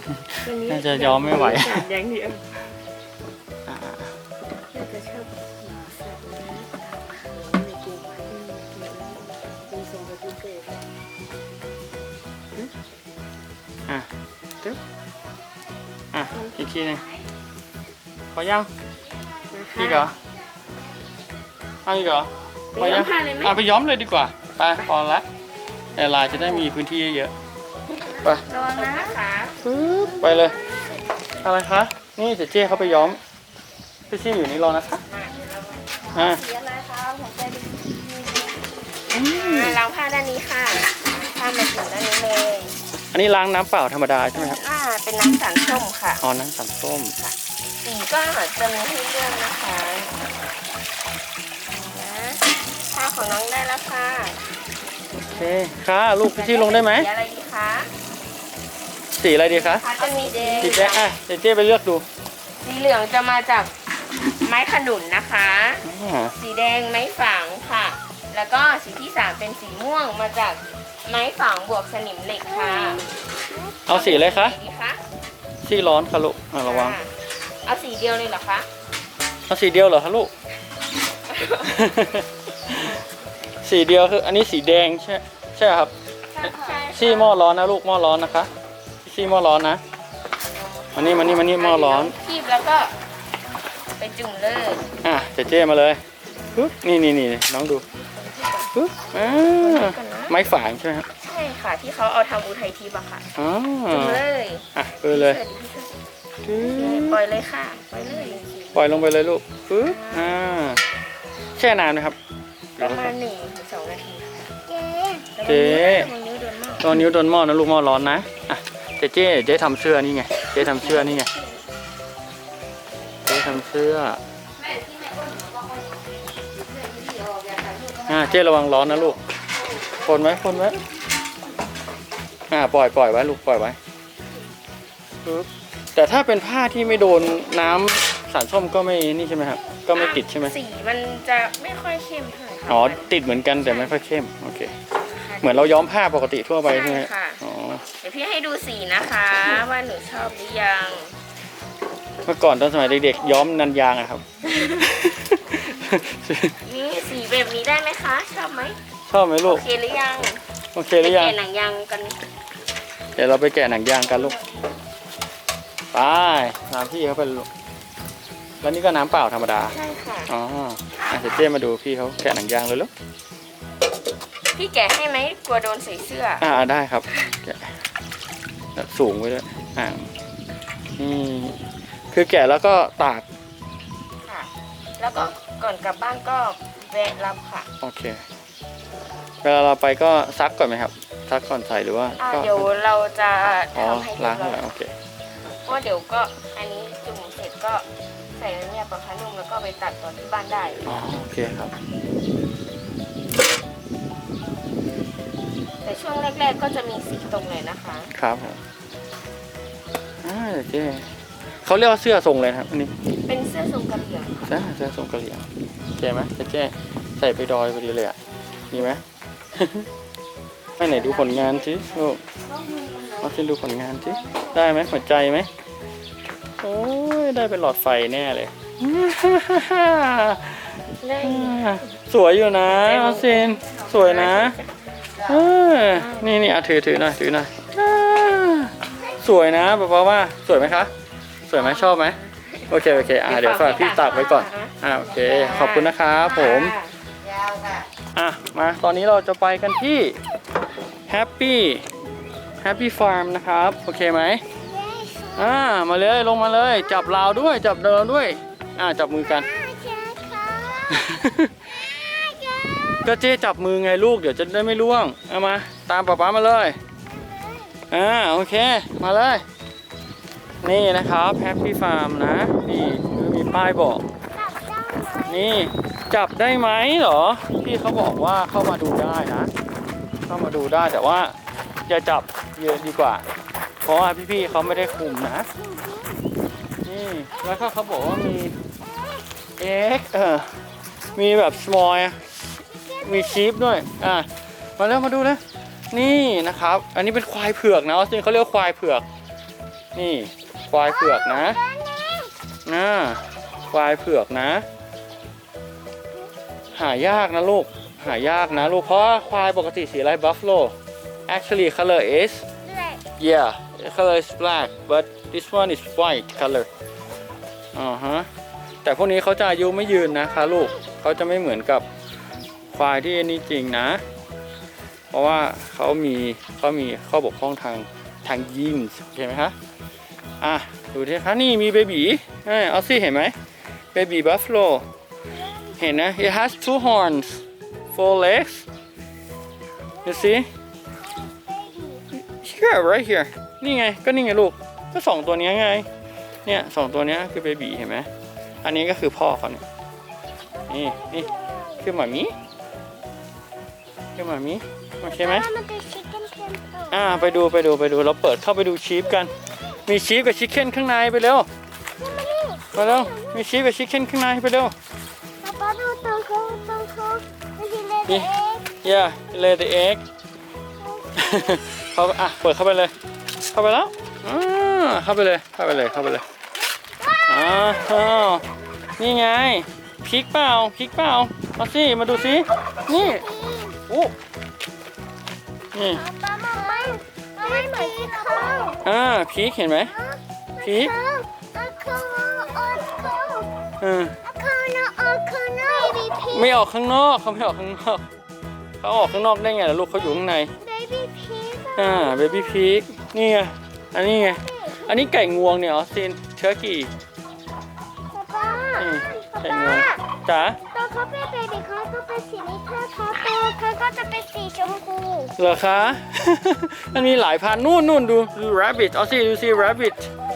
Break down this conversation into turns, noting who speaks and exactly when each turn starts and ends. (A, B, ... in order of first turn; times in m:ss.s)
0:00.1-0:01.9 A
0:00.4-0:02.4 B
0:03.7-0:04.1 A
0:04.7-0:08.9 C
0:08.3-0:09.2 B
0:09.4-0:10.8 C
0:16.1-0:17.0 A
0:18.3-0:18.7 A
0:19.5-0:20.1 B
0:19.7-0:20.1 A
0:21.8-0:25.2 A
0:22.7-0:23.6 B
0:25.9-0:27.3 A
0:28.4-0:29.2 C
0:28.5-0:29.6 B
0:29.6-0:30.6 A
0:30.2-0:30.8 C
0:31.3-0:33.2 A
0:34.1-0:35.0 A
0:35.0-0:35.9 B
0:35.9-0:38.6 C
0:36.1-0:36.4 A
0:39.1-0:39.8 A
0:39.2-0:42.8 B
0:43.1-0:44.6 A
0:44.3-0:46.2 B
0:46.2-0:47.2 A
0:47.2-0:50.2 B
0:51.7-0:54.4 B
0:55.2-0:57.1 A
0:56.2-0:57.9 B
0:59.2-0:59.8 A
0:59.5-1:01.1 B
0:59.9-1:00.8 C
1:00.6-1:02.0 A
1:02.6-1:03.7 B
1:04.3-1:05.8 B
1:05.8-1:06.3 A
1:06.3-1:13.1 B
1:12.5-1:13.8 D
1:13.8-1:14.6 A
1:13.9-1:15.0 B
1:15.6-1:17.0 A
1:16.6-1:18.7 B
1:19.5-1:20.3 A
1:21.3-1:21.7 B
1:21.6-1:23.0 A
1:23.6-1:25.9 A
1:26.4-1:27.4 B
1:26.4-1:28.5 A
1:29.0-1:29.8 A
1:30.5-1:33.0 B
1:30.9-1:32.1 A
1:34.0-1:34.9 B
1:35.0-1:36.0 A
1:36.4-1:36.7 B
1:36.5-1:37.8 A
1:37.9-1:38.7 B
1:38.7-1:41.1 A
1:39.2-1:40.4 B
1:41.2-1:43.2 B
1:43.3-1:44.2 A
1:43.9-1:45.9 B
1:44.7-1:45.4 A
1:46.4-1:47.2 A
1:46.7-1:49.0 B
1:48.7-1:50.8 A
1:49.8-1:50.4 B
1:51.5-1:52.2 A
1:52.8-1:53.1 A
1:52.8-1:54.5 B
1:54.7-1:55.3 D
1:55.3-1:57.0 B
1:55.4-1:56.1 A
1:56.8-2:01.3 A
2:00.5-2:01.6 B
2:03.2-2:04.2 A
2:04.6-2:06.0 C
2:06.6-2:09.1 C
2:08.0-2:09.2 A
2:10.0-2:10.8 A
2:12.5-2:13.8 A
2:15.2-2:20.5 A
2:19.9-2:24.0 B
2:22.7-2:24.7 A
2:25.0-2:25.9 B
2:25.4-2:27.8 A
2:26.6-2:27.4 B
2:28.0-2:31.1 B
2:32.2-2:36.6 A
2:36.6-2:38.8 B
2:39.1-2:39.6 A
2:39.4-2:40.4 B
2:40.7-2:41.4 A
2:41.0-2:42.2 B
2:43.1-2:44.4 A
2:45.9-2:47.5 A
2:48.6-2:49.8 A
2:49.7-2:50.3 B
2:50.3-2:52.9 A
2:54.5-2:56.5 B
2:56.4-2:57.8 A
2:58.7-3:00.1 A
3:01.0-3:03.2 A
3:04.2-3:07.7 B
3:07.8-3:08.2 A
3:09.4-3:12.6 A
3:12.2-3:14.6 B
3:13.7-3:14.9 A
3:15.6-3:20.9 B
3:20.8-3:21.7 A
3:25.8-3:28.1 B
3:28.1-3:28.6 A
3:30.2-3:32.9 A
3:33.2-3:34.4 B
3:34.4-3:38.2 A
3:38.7-3:39.0 A
3:39.5-3:39.9 A
3:40.8-3:42.2 A
3:41.0-3:44.5 C
3:43.2-3:45.5 A
3:46.6-3:54.6 A
3:51.0-3:51.8 B
3:52.8-3:54.8 B
3:55.2-4:00.9 A
3:55.9-3:56.3 B
4:01.5-4:02.2 A
4:01.5-4:07.8 B
4:02.7-4:06.8 A
4:08.1-4:10.2 A
4:11.1-4:11.9 A
4:12.6-4:14.4 A
4:14.6-4:15.7 D
4:15.4-4:19.5 A
4:19.3-4:21.1 D
4:20.9-4:21.5 A
4:21.7-4:23.1 D
4:23.0-4:26.8 A
4:27.1-4:27.8 D
4:27.9-4:29.4 A
4:30.6-4:34.0 A
4:34.3-4:35.5 D
4:35.2-4:39.5 A
4:40.3-4:41.4 A
4:41.9-4:43.2 A
4:43.8-4:45.5 A
4:45.5-4:46.3 D
4:46.8-4:48.6 A
4:49.6-4:52.3 A
4:52.8-4:53.4 D
4:52.9-4:59.0 A
4:59.9-5:01.6 A
5:01.1-5:02.3 D
5:02.6-5:04.6 A
5:06.7-5:10.7 A
5:11.3-5:12.4 A
5:12.7-5:13.0 D
5:13.2-5:16.7 A
5:17.7-5:18.3 A
5:18.8-5:21.8 A
5:22.7-5:24.0 A
5:25.1-5:29.5 A
5:30.4-5:33.4 A
5:33.9-5:34.8 A
5:35.8-5:38.6 A
5:40.0-5:40.4 D
5:40.0-5:40.5 A
5:41.0-5:42.0 D
5:42.1-5:45.9 A
5:46.4-5:48.1 A
5:48.6-5:49.6 A
5:50.7-5:51.9 D
5:50.7-5:52.3 A
5:54.2-5:55.5 A
5:55.0-5:57.4 D
5:56.9-6:01.5 A
6:02.0-6:03.4 D
6:02.7-6:04.7 A
6:05.4-6:08.8 D
6:08.1-6:10.0 A
6:10.8-6:11.6 D
6:11.2-6:16.2 A
6:17.0-6:17.9 D
6:17.3-6:18.5 A
6:19.0-6:23.3 A
6:22.9-6:23.8 D
6:23.9-6:24.1 A
6:25.7-6:26.1 A
6:25.9-6:28.8 D
6:28.8-6:29.9 A
6:30.0-6:33.6 D
6:30.6-6:30.9 A
6:33.8-6:34.2 A
6:34.2-6:36.6 D
6:36.3-6:38.0 A
6:38.8-6:40.5 A
6:40.6-6:42.3 D
6:41.8-6:46.9 A
6:44.3-6:44.9 D
6:48.1-6:50.0 D
6:48.8-6:50.6 A
6:50.7-6:55.4 D
6:55.4-7:00.1 A